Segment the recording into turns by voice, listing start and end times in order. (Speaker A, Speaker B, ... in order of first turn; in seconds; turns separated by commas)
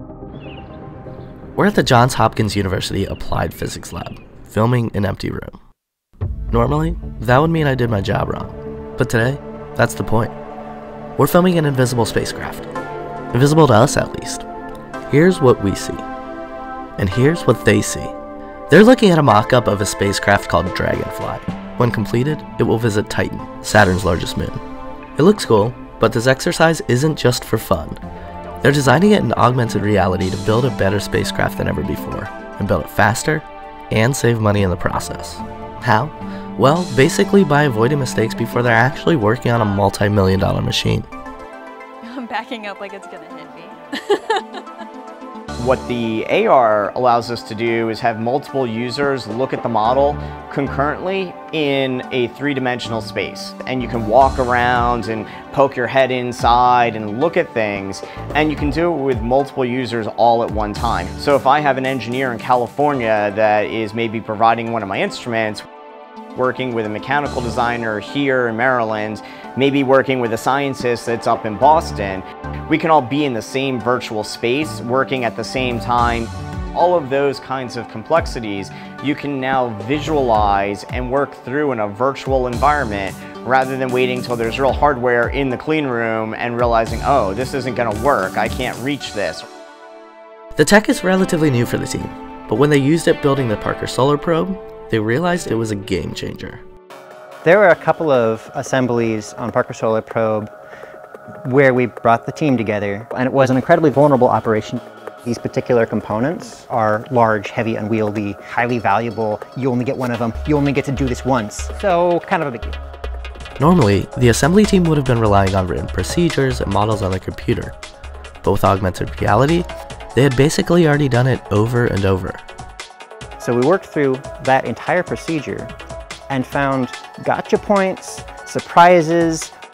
Speaker A: 1.6-5.6, Speaker A: 6.5-10.3, Speaker A: 11.2-12.7, Speaker A: 13.3-14.4, Speaker A: 15.1-16.0, Speaker A: 17.0-18.1, Speaker A: 18.7-24.6, Speaker A: 25.1-28.0, Speaker A: 28.6-41.1, Speaker B: 42.0-44.4, Speaker C: 45.6-65.7, Speaker C: 66.3-89.5, Speaker A: 90.5-96.6, Speaker D: 97.4-100.5, Speaker D: 101.4-112.8, Speaker A: 113.6-117.7, Speaker A: 118.4-122.4, Speaker D: 123.4-125.7, Speaker D: 126.3-129.5